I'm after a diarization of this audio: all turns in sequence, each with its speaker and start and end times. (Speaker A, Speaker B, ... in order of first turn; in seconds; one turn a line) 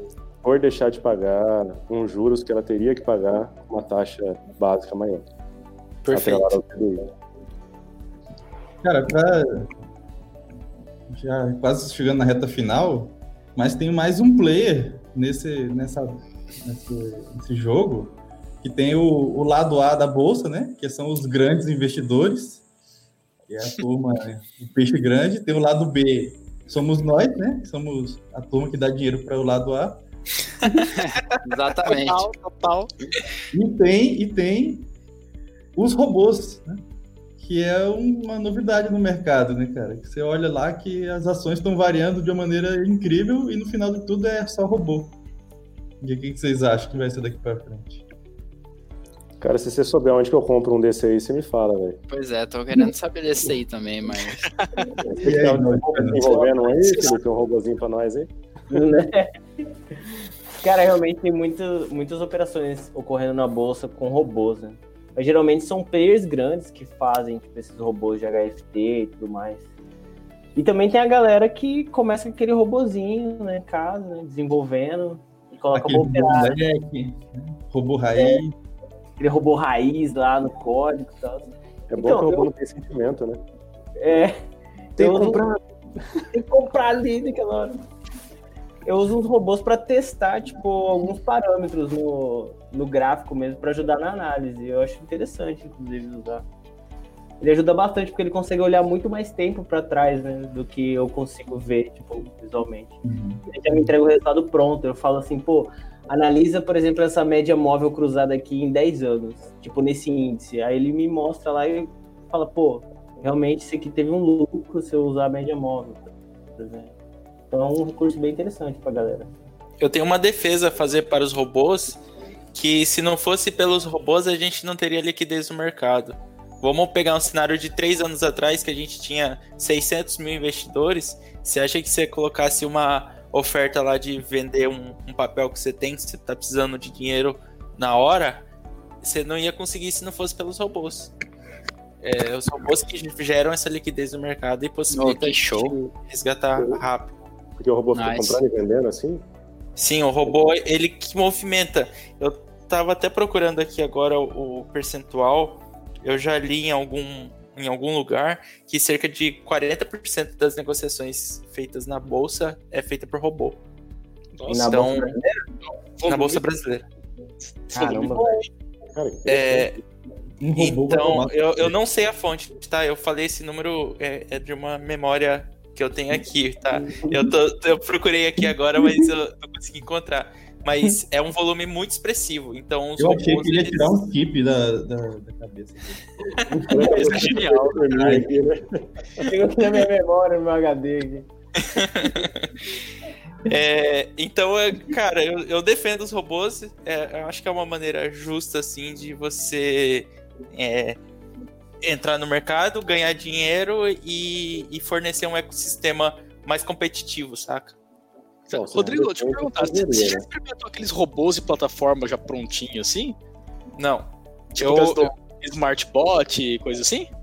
Speaker A: 0.4-5.2
Speaker B: 6.0-6.6
Speaker A: 6.1-7.1
Speaker C: 8.8-9.7
Speaker C: 11.1-22.6
Speaker C: 23.5-30.0
Speaker D: 30.9-32.9
Speaker E: 31.9-32.6
Speaker C: 33.5-34.9
Speaker C: 35.8-36.8
Speaker C: 37.4-45.2
Speaker C: 46.0-48.0
Speaker A: 49.4-52.0
Speaker D: 52.1-54.5
Speaker E: 54.5-54.9
Speaker A: 55.0-58.3
Speaker C: 55.2-56.5
Speaker F: 56.2-56.7
Speaker F: 58.7-59.3
Speaker F: 60.6-69.6
Speaker F: 70.5-76.6
Speaker C: 75.7-78.5
Speaker F: 78.2-78.4
Speaker F: 79.2-82.5
Speaker A: 81.9-83.4
Speaker F: 84.0-84.3
Speaker F: 85.0-85.4
Speaker A: 85.0-85.6
Speaker F: 86.3-87.8
Speaker F: 88.8-96.5
Speaker F: 97.4-116.9
Speaker C: 103.0-103.9
Speaker F: 117.5-119.3
Speaker B: 119.8-122.0
Speaker B: 122.5-138.4
Speaker B: 139.0-141.1
Speaker B: 142.0-147.1
Speaker D: 144.9-145.8
Speaker A: 146.6-146.8
Speaker A: 147.6-149.2
Speaker D: 147.9-148.4
Speaker B: 149.8-163.6
Speaker E: 164.3-164.7
Speaker F: 164.5-165.4
Speaker B: 164.6-165.1
Speaker E: 166.0-166.4
Speaker B: 166.0-166.8
Speaker E: 167.7-168.4
Speaker F: 167.7-168.4
Speaker A: 167.8-168.2
Speaker A: 168.9-169.8
Speaker B: 169.3-169.7
Speaker C: 170.4-171.7
Speaker B: 170.6-184.0
Speaker F: 176.8-177.3
Speaker F: 178.8-179.0
Speaker C: 183.0-186.1
Speaker A: 186.5-189.3
Speaker F: 186.7-187.5
Speaker E: 186.9-187.4
Speaker C: 187.9-188.3
Speaker F: 189.2-191.3
Speaker B: 191.6-192.5
Speaker B: 193.4-201.0
Speaker B: 201.8-207.8
Speaker E: 208.5-213.2
Speaker A: 208.5-210.2
Speaker B: 213.8-215.1
Speaker E: 214.5-217.1